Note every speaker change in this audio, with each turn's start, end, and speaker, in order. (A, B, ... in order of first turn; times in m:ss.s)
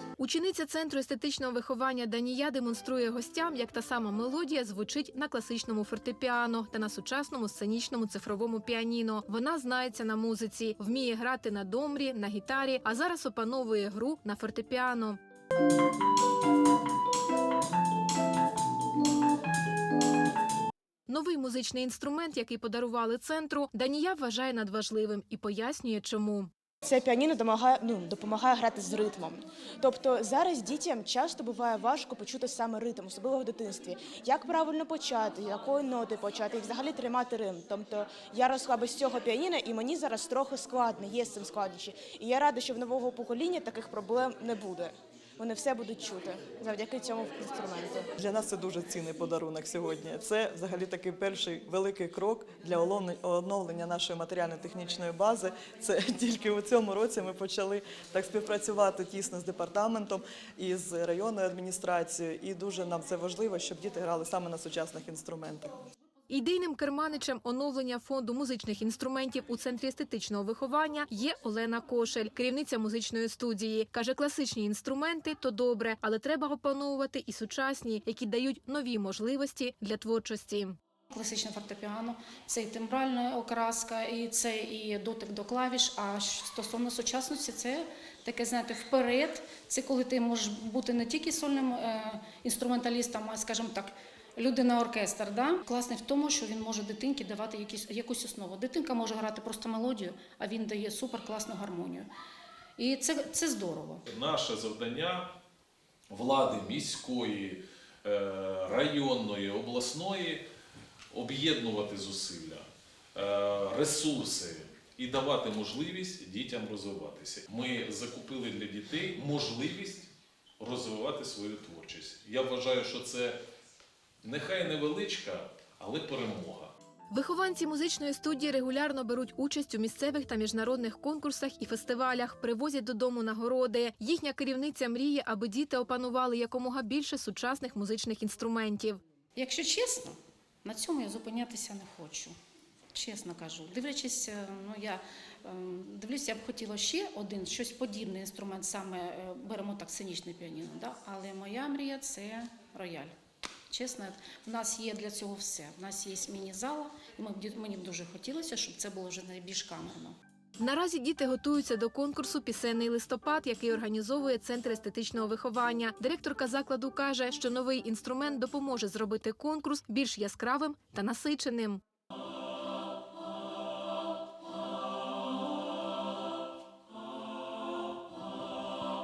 0:00.2-0:15.2 A
0:21.1-0:26.5 A
0:26.8-0:48.1 B
0:48.2-1:05.7 C
1:06.3-1:20.8 A
1:21.1-1:42.1 D
1:42.8-1:44.0 D
1:44.1-1:45.3 E
1:46.1-1:50.4 E
1:51.1-2:03.4 E
2:04.2-2:06.7 E
2:07.1-2:19.0 A
2:19.4-2:22.3 D
2:22.9-2:33.1 D
2:33.7-2:40.2 D
2:40.6-2:51.8 A